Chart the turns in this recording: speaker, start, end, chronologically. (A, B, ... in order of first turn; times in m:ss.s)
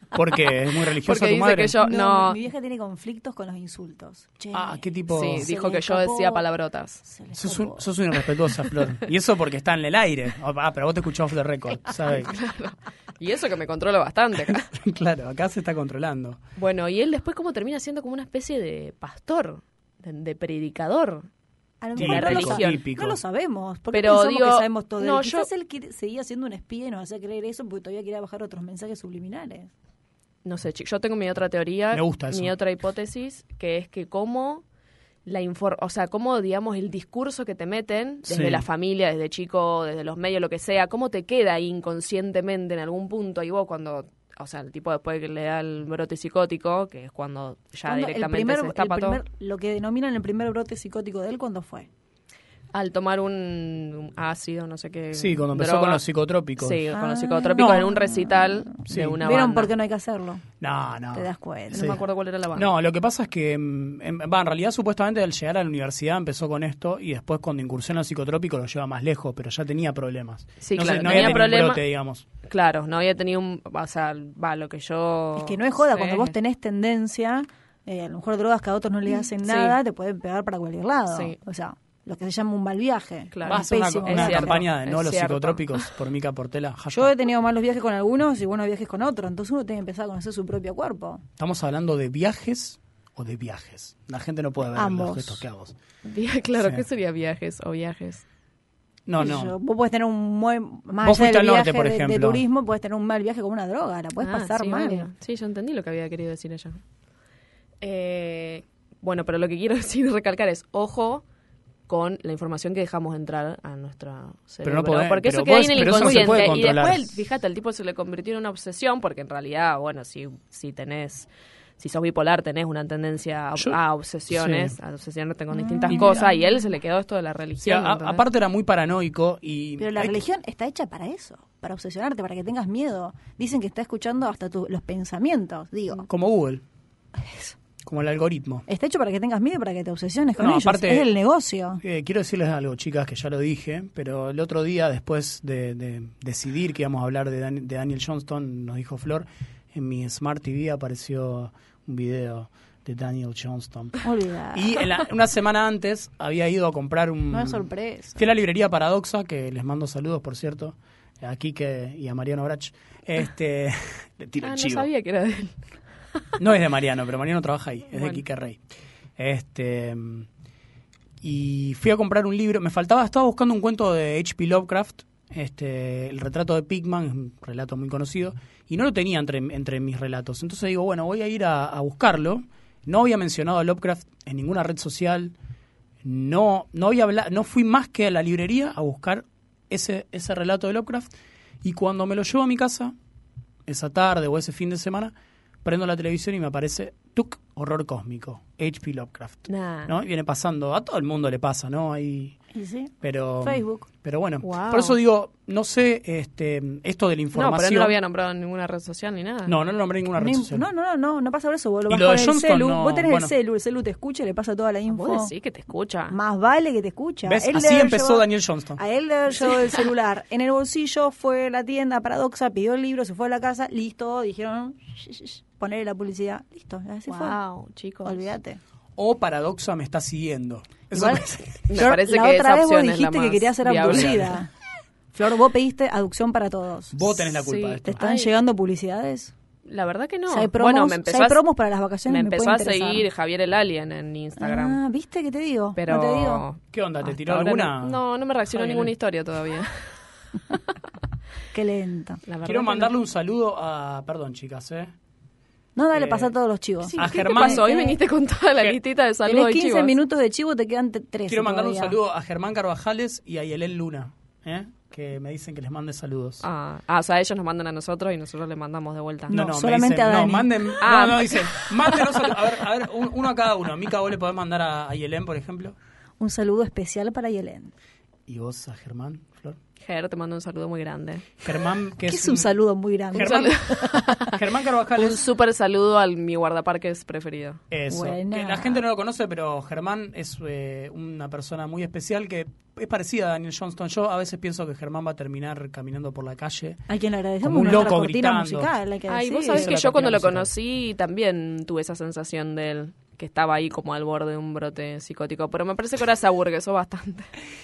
0:00.1-0:01.7 A
0:01.0-0:02.4 B
0:01.8-0:06.4 C
0:04.5-0:05.5 A
0:05.1-0:07.0 B
0:07.0-0:07.9 C
0:07.4-0:12.3 A
0:12.1-0:14.7 B
0:14.5-0:16.4 A
0:16.6-0:21.3 B
0:21.8-0:29.7 C
0:22.0-0:23.2 A
0:22.0-0:22.8 B
0:23.9-0:25.5 B
0:30.4-0:34.6 B
0:31.9-0:32.5 A
0:35.2-0:49.2 B
0:38.3-0:38.6 A
0:47.8-0:51.9 C
0:52.7-0:56.0 B
0:55.1-0:56.8 A
0:56.6-0:59.7 B
0:56.9-1:00.4 C
0:58.9-0:59.3 A
1:00.6-1:02.0 A
1:01.1-1:02.0 C
1:01.7-1:02.7 B
1:02.5-1:12.2 A
1:10.6-1:11.8 B
1:12.4-1:16.3 B
1:15.4-1:24.6 C
1:19.1-1:19.8 B
1:21.1-1:21.4 B
1:23.3-1:25.9 B
1:23.4-1:27.1 A
1:26.9-1:31.2 C
1:31.4-1:35.7 A
1:34.7-1:35.4 C
1:36.0-1:38.2 B
1:36.6-1:36.8 A
1:39.0-1:39.5 A
1:39.2-1:45.1 C
1:41.0-1:42.4 A
1:44.2-1:46.8 B
1:47.8-1:51.2 B
1:51.9-2:01.3 B
1:54.6-1:57.2 A
2:01.8-2:08.2 B
2:04.3-2:04.7 A
2:05.5-2:06.7 C
2:05.9-2:06.2 A
2:07.6-2:10.2 A
2:09.8-2:16.1 C
2:16.1-2:16.6 A
2:17.1-2:17.6 C
2:17.8-2:18.6 A
2:18.7-2:21.8 C
2:20.4-2:21.1 A
2:21.8-2:44.9 A
2:34.0-2:34.9 C
2:37.3-2:38.2 C
2:44.4-2:45.6 B
2:46.4-2:48.6 A
2:47.9-2:48.2 B
2:49.2-2:50.3 A
2:51.2-3:05.3 A
3:06.0-3:11.1 A
3:11.6-3:12.9 A
3:13.7-3:15.1 A
3:15.6-3:22.4 A
3:19.5-3:19.9 B
3:22.5-3:23.9 C
3:23.0-3:27.9 A
3:24.4-3:25.0 B
3:27.3-3:29.5 B
3:29.4-3:30.7 A
3:30.2-3:35.3 C
3:31.9-3:33.3 A
3:34.9-3:36.2 B
3:36.1-3:47.4 C
3:37.2-3:38.8 A
3:47.1-3:48.3 B
3:48.0-3:48.6 C
3:49.0-3:51.9 A
3:50.9-3:54.5 C
3:51.7-3:54.2 B
3:53.8-3:54.4 A
3:55.1-3:57.0 C
3:56.9-3:58.0 A
3:57.4-3:58.3 B
3:57.8-3:59.3 C
3:59.6-4:01.4 B
4:00.3-4:03.0 C
4:02.1-4:04.8 B
4:04.4-4:06.4 C
4:05.8-4:10.0 B
4:06.7-4:08.9 A
4:11.5-4:12.2 C
4:12.3-4:12.9 B
4:12.4-4:14.9 A
4:15.8-4:18.0 C
4:15.9-4:16.3 A
4:16.8-4:19.9 B
4:17.0-4:17.6 A
4:19.2-4:22.0 C
4:21.3-4:26.4 A
4:26.4-4:29.4 B
4:29.3-4:30.9 C
4:29.3-4:35.7 A
4:30.8-4:31.6 B
4:36.2-4:37.7 C
4:38.3-4:39.6 A
4:39.8-4:41.3 B
4:41.4-4:42.5 A
4:42.0-4:44.2 C
4:43.1-4:43.6 A
4:43.1-4:44.4 B
4:44.2-4:45.2 A
4:44.9-4:47.6 B
4:47.7-4:56.8 A
4:47.9-4:48.8 C
4:56.9-5:00.0 C
4:57.4-4:58.7 A
4:59.1-5:07.3 B
4:59.5-5:00.5 A